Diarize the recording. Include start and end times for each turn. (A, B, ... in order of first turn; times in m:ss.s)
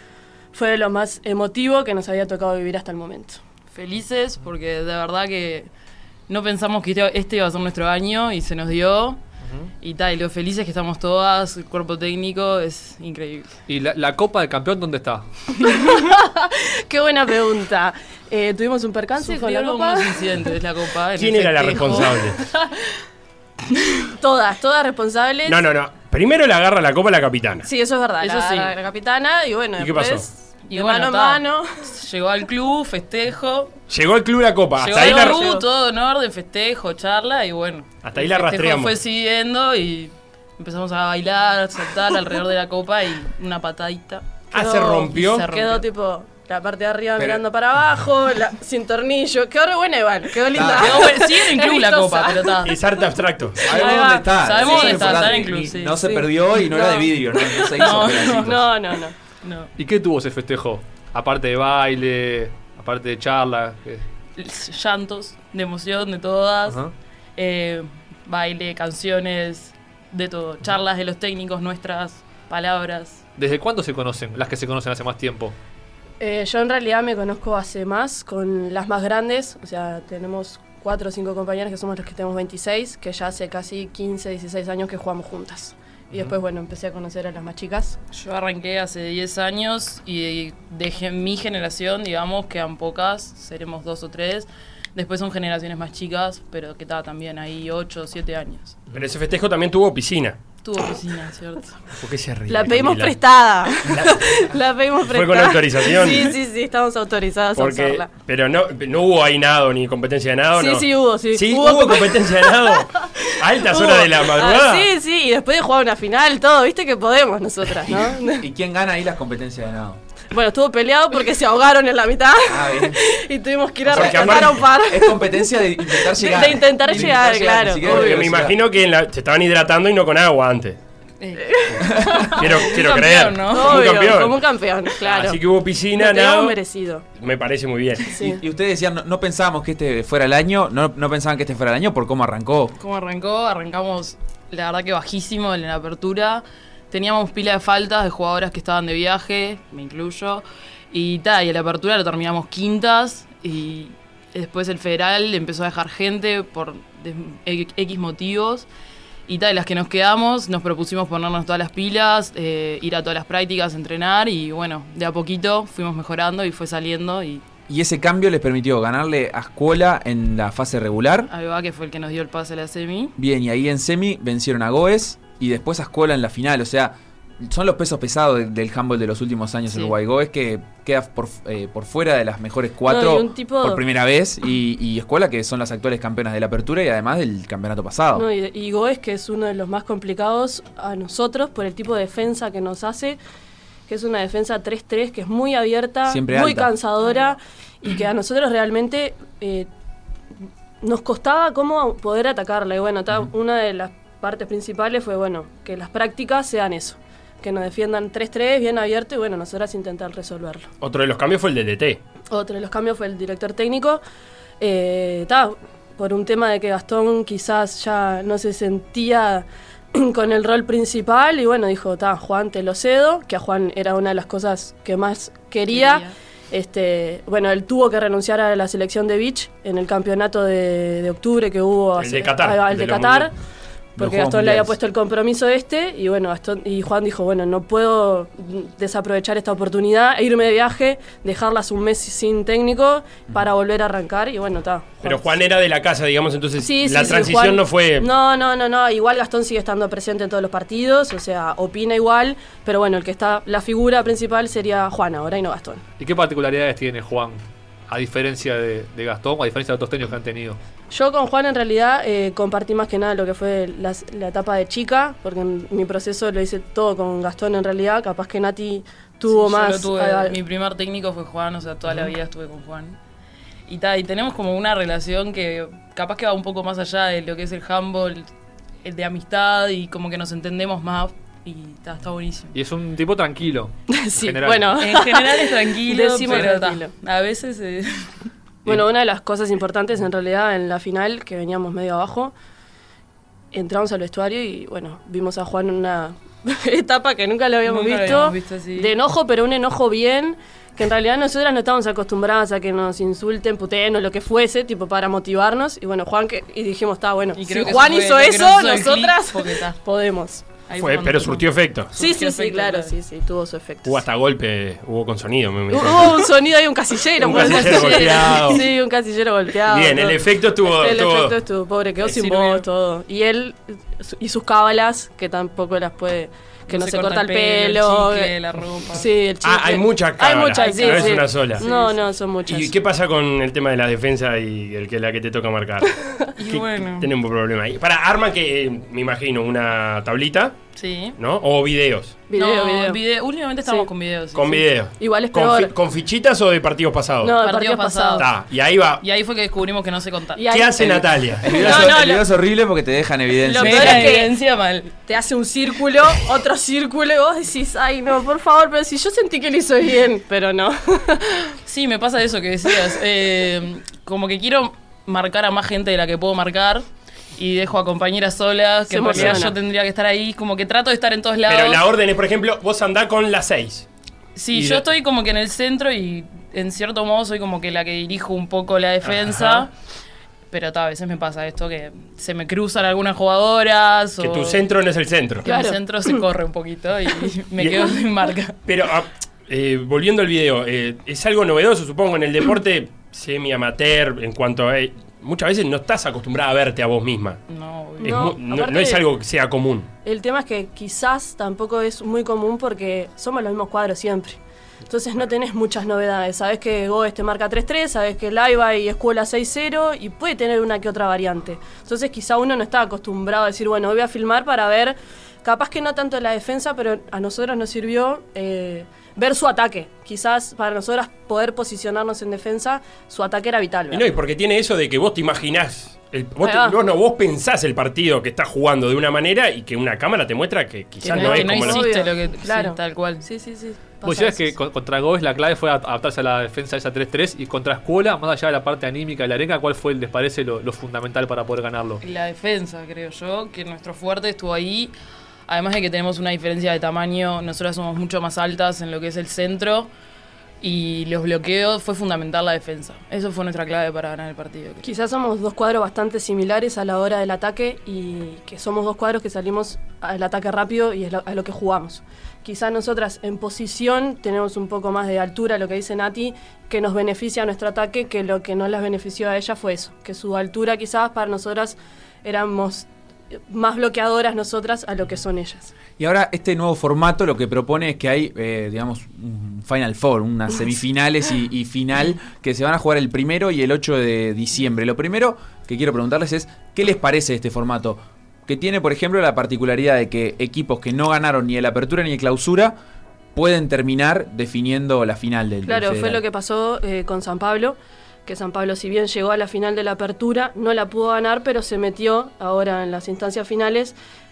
0:00.5-0:03.4 A
0:03.7-0:05.7 B
0:06.3-0:09.2 B
0:09.4-0:09.7 C
0:09.8-0:13.6 B
0:13.7-0:15.2 C
0:15.6-0:20.2 A
0:19.2-0:22.1 B
0:21.2-0:22.4 D
0:24.0-0:25.6 A
0:25.4-0:27.7 D
0:27.6-0:31.9 A
0:28.2-0:28.7 B
0:29.8-0:30.3 D
0:30.7-0:33.7 B
0:33.9-0:35.5 D
0:34.8-0:44.3 B
0:34.9-0:35.6 A
0:38.0-0:39.0 D
0:44.5-0:45.5 D
0:44.5-0:52.6 A
0:45.1-0:45.8 B
0:47.2-0:47.4 E
0:50.5-0:51.2 E
0:50.6-0:52.8 B
0:52.6-0:53.6 D
0:53.6-0:58.7 E
0:53.6-0:55.4 A
0:53.7-0:56.0 B
0:56.0-0:59.1 A
0:57.7-0:58.5 B
0:59.4-0:59.7 B
0:59.8-1:04.0 C
1:04.4-1:06.8 B
1:06.7-1:06.9 C
1:07.4-1:13.2 B
1:13.4-1:15.5 C
1:16.2-1:28.0 A
1:28.1-1:38.8 B
1:38.9-1:40.4 D
1:40.6-1:41.8 B
1:41.9-1:43.2 D
1:42.5-1:48.1 A
1:43.9-1:44.2 D
1:45.0-1:46.4 D
1:47.5-1:54.9 D
1:50.5-1:58.4 A
1:57.9-2:00.0 E
2:00.3-2:08.3 A
2:02.4-2:03.0 E
2:03.9-2:04.7 D
2:03.9-2:08.6 E
2:07.8-2:10.8 D
2:11.2-2:11.6 B
2:11.4-2:12.6 A
2:11.8-2:14.4 D
2:12.2-2:13.9 B
2:13.5-2:15.4 A
2:15.0-2:16.6 D
2:15.9-2:17.0 A
2:17.2-2:18.1 D
2:18.0-2:18.4 A
2:18.2-2:22.7 E
2:22.8-2:38.7 B
2:39.3-2:47.4 B
2:47.7-2:51.3 E
2:51.3-2:53.1 B
2:53.2-3:08.3 E
2:59.7-2:59.9 B
3:02.8-3:03.8 A
3:08.1-3:13.2 A
3:13.9-3:19.7 A
3:16.0-3:16.7 E
3:20.8-3:30.7 A
3:30.8-3:32.0 D
3:32.3-3:34.0 A
3:34.6-3:53.3 A
3:45.7-3:46.1 B
3:52.0-3:53.3 D
3:54.0-4:05.3 A
3:54.0-3:54.8 E
4:05.0-4:08.1 D
4:06.6-4:15.8 A
4:16.0-4:20.6 C
4:20.9-4:30.4 A
4:29.3-4:33.0 B
4:33.7-4:38.3 B
4:38.8-4:42.5 B
4:42.5-4:44.8 C
4:43.9-4:46.9 A
4:44.8-4:48.1 B
4:48.6-4:52.3 A
4:53.5-5:10.4 A
4:57.6-4:58.9 B
5:07.4-5:09.8 B
5:10.7-5:13.0 B
5:10.8-5:11.9 D
5:11.9-5:14.0 A
5:13.8-5:16.4 D
5:15.7-5:28.3 A
5:17.2-5:18.7 D
5:17.3-5:18.6 B
5:19.6-5:21.4 D
5:22.1-5:22.6 B
5:26.7-5:29.1 B
5:28.9-5:32.8 A
5:29.4-5:31.6 D
5:30.5-5:32.0 B
5:32.4-5:35.9 D
5:36.4-5:37.1 B
5:36.5-5:40.6 D
5:40.8-5:41.2 B
5:41.2-5:42.2 D
5:42.3-5:43.0 A
5:42.3-5:44.6 B
5:44.3-5:47.4 D
5:45.0-5:45.7 A
5:47.2-5:48.3 A
5:47.4-5:48.3 B
5:48.2-5:49.0 D
5:49.0-5:50.4 B
5:50.4-5:52.2 A
5:50.5-5:51.9 D
5:51.4-5:54.2 E
5:53.4-5:54.3 A
5:53.6-5:54.9 B
5:55.0-6:01.5 A
6:01.6-6:06.8 B
6:07.4-6:11.8 B
6:08.9-6:09.5 A
6:11.5-6:13.9 D
6:14.4-6:19.7 B
6:14.5-6:14.8 D
6:19.0-6:19.7 D
6:20.5-6:24.6 B
6:24.2-6:25.5 D
6:25.4-6:28.6 B
6:25.4-6:26.2 A
6:27.6-6:27.9 D
6:28.6-6:37.4 D
6:37.5-6:38.3 B
6:38.0-6:39.0 A
6:38.0-6:39.9 D
6:40.0-7:04.1 A
7:03.9-7:11.9 D
7:06.4-7:06.8 A
7:11.0-7:14.5 A
7:11.0-7:13.2 B
7:14.0-7:22.0 C
7:22.0-7:24.9 B
7:25.5-7:29.9 B
7:30.6-7:34.9 B
7:34.8-7:55.7 A
7:56.0-8:12.8 E
8:13.3-8:16.2 E
8:15.7-8:23.9 A